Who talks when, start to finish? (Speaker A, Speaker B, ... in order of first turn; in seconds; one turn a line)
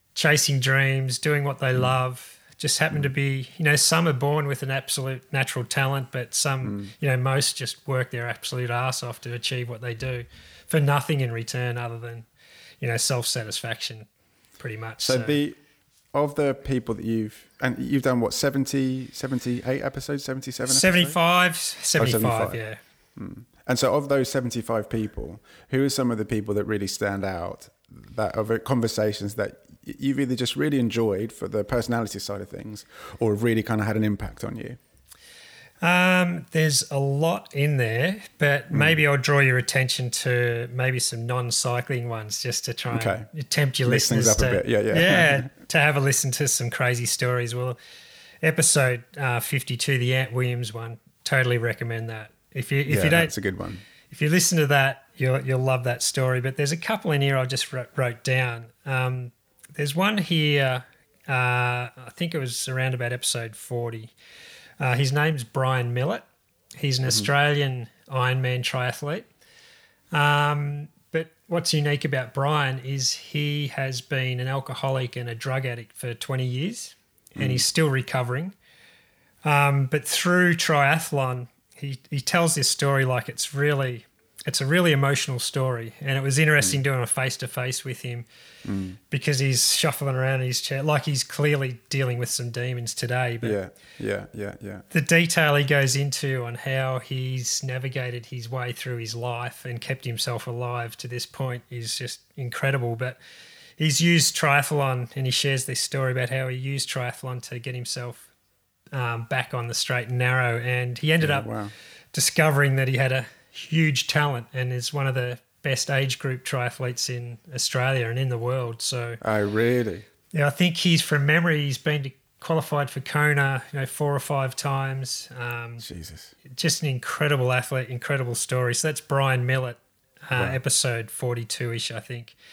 Speaker A: 0.1-12.2
Speaker B: 6.6-6.9
Speaker A: 12.8-14.1
Speaker A: 14.6-15.4
Speaker B: 15.0-15.6
Speaker B: 16.1-21.1
Speaker A: 20.7-22.8
Speaker B: 22.0-22.6
Speaker B: 23.1-34.8
Speaker A: 35.8-47.8
Speaker B: 38.7-39.0
Speaker B: 42.9-43.2
Speaker B: 43.9-45.5
Speaker A: 48.4-53.3
Speaker B: 52.9-53.8
Speaker A: 54.1-64.1
Speaker A: 64.8-66.2
Speaker A: 66.8-69.3
Speaker A: 70.1-78.5
Speaker B: 77.4-77.6
Speaker A: 79.4-88.2
Speaker B: 88.6-89.0
Speaker A: 89.1-93.6
Speaker B: 93.4-94.8
Speaker A: 94.9-103.2
Speaker A: 103.8-108.3
Speaker A: 108.9-111.5
Speaker B: 111.2-111.7
Speaker A: 112.1-119.2
Speaker B: 119.2-120.0
Speaker A: 120.3-125.8
Speaker B: 125.8-126.3
Speaker A: 126.5-132.3